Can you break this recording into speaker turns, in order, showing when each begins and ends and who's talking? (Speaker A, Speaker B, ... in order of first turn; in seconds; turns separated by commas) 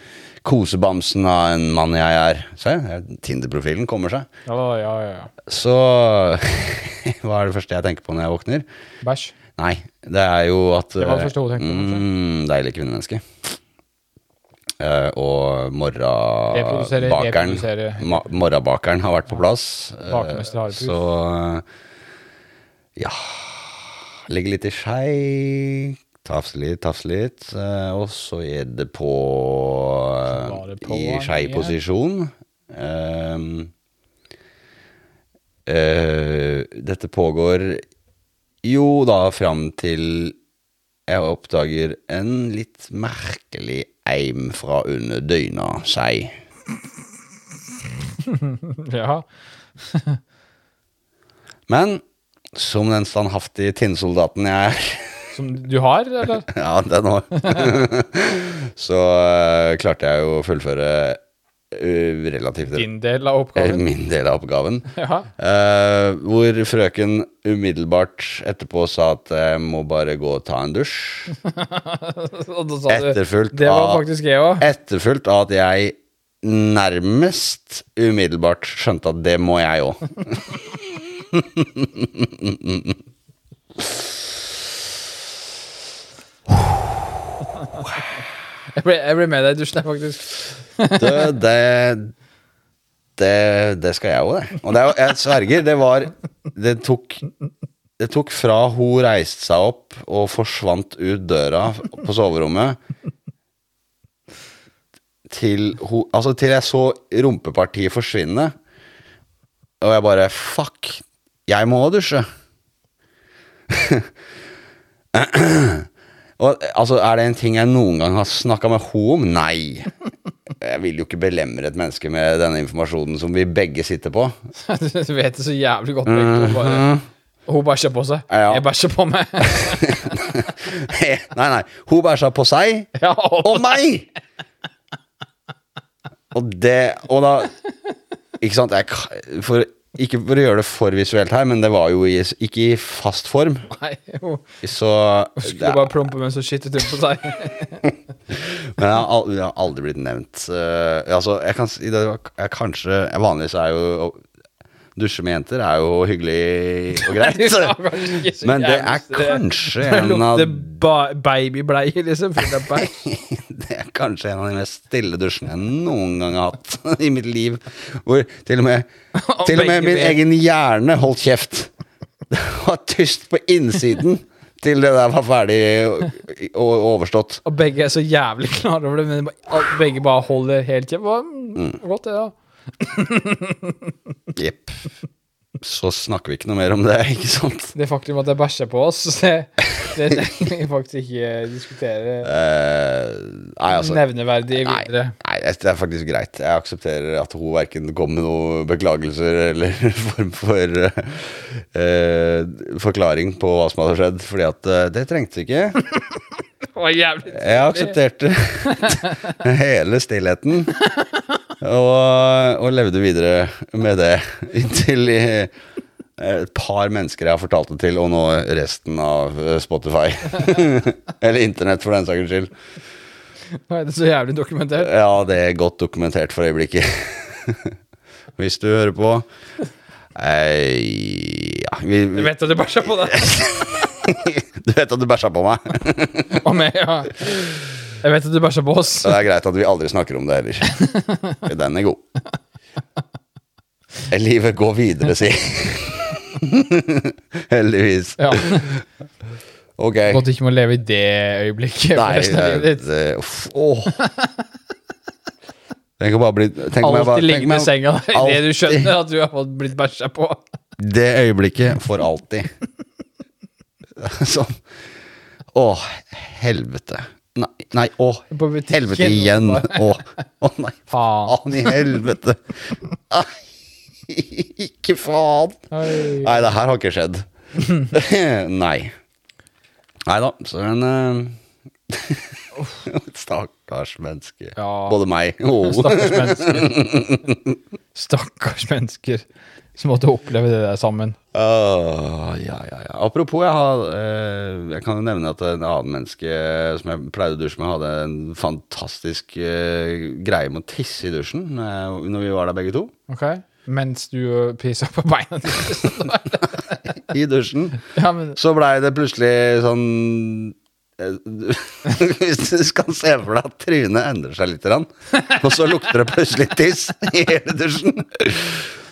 Speaker A: 0.4-4.3, Speaker B: 4.5-5.3, Speaker A: 5.5-8.6, Speaker B: 9.0-9.3, Speaker A: 9.6-13.2, Speaker B: 11.0-12.1, Speaker A: 14.8-21.6, Speaker B: 16.5-18.3, Speaker B: 20.1-21.0, Speaker A: 23.0-33.7, Speaker B: 30.3-31.7, Speaker A: 35.7-37.8, Speaker A: 38.6-40.4, Speaker A: 41.1-46.4, Speaker B: 48.2-50.2, Speaker A: 51.7-52.0, Speaker A: 52.5-55.3, Speaker B: 55.3-56.5, Speaker A: 56.5-61.2, Speaker B: 57.4-57.8, Speaker A: 61.7-62.9, Speaker B: 62.7-63.9, Speaker A: 63.5-71.4, Speaker B: 64.9-65.3, Speaker B: 71.4-74.7, Speaker A: 72.9-74.0, Speaker A: 74.6-83.0, Speaker B: 88.7-91.3, Speaker A: 90.9-92.1, Speaker A: 93.2-97.2, Speaker A: 98.0-102.8, Speaker A: 105.3-108.5, Speaker A: 109.8-112.3, Speaker A: 113.7-114.1, Speaker A: 115.1-115.9, Speaker A: 116.4-119.9, Speaker A: 120.6-124.3, Speaker B: 124.6-126.9, Speaker A: 126.1-127.0, Speaker B: 127.5-130.1, Speaker A: 128.3-128.6, Speaker A: 129.5-132.9, Speaker B: 132.9-133.9, Speaker A: 133.4-134.1, Speaker A: 136.3-137.5, Speaker A: 138.4-143.7, Speaker B: 143.7-144.5, Speaker A: 144.6-145.9, Speaker B: 145.4-147.9, Speaker A: 148.3-154.2, Speaker A: 154.9-160.7, Speaker B: 156.9-162.9, Speaker A: 162.7-168.9, Speaker B: 169.1-170.2, Speaker A: 169.4-171.7, Speaker A: 172.3-177.4, Speaker B: 177.4-183.9, Speaker A: 184.3-184.8, Speaker A: 185.6-187.7, Speaker B: 187.7-192.3, Speaker A: 192.2-205.8, Speaker B: 193.7-195.2, Speaker B: 205.9-206.2, Speaker B: 206.7-208.0, Speaker A: 207.3-210.8, Speaker B: 208.7-209.1, Speaker B: 210.8-211.2, Speaker A: 211.6-215.5, Speaker A: 216.2-222.5, Speaker B: 223.5-224.9, Speaker A: 224.8-227.7, Speaker A: 228.4-229.3, Speaker A: 230.1-236.4, Speaker B: 232.1-233.6, Speaker B: 236.3-239.2, Speaker A: 239.0-240.8, Speaker B: 240.8-241.3, Speaker A: 241.4-242.0, Speaker A: 244.1-248.8, Speaker B: 248.2-248.7, Speaker A: 249.8-250.3, Speaker B: 250.1-252.8, Speaker A: 251.9-254.0, Speaker B: 253.9-254.4, Speaker A: 256.0-258.9, Speaker B: 256.8-260.4, Speaker A: 260.8-262.5, Speaker A: 264.0-264.6, Speaker A: 265.5-273.4, Speaker B: 268.3-270.1, Speaker B: 270.9-271.9, Speaker A: 274.1-278.9, Speaker B: 275.7-276.5, Speaker A: 280.1-281.4, Speaker A: 281.9-287.6, Speaker B: 284.6-285.0, Speaker B: 285.6-286.8, Speaker B: 287.9-291.2, Speaker A: 291.3-302.9, Speaker B: 303.1-306.8, Speaker A: 306.9-318.7, Speaker B: 307.8-308.4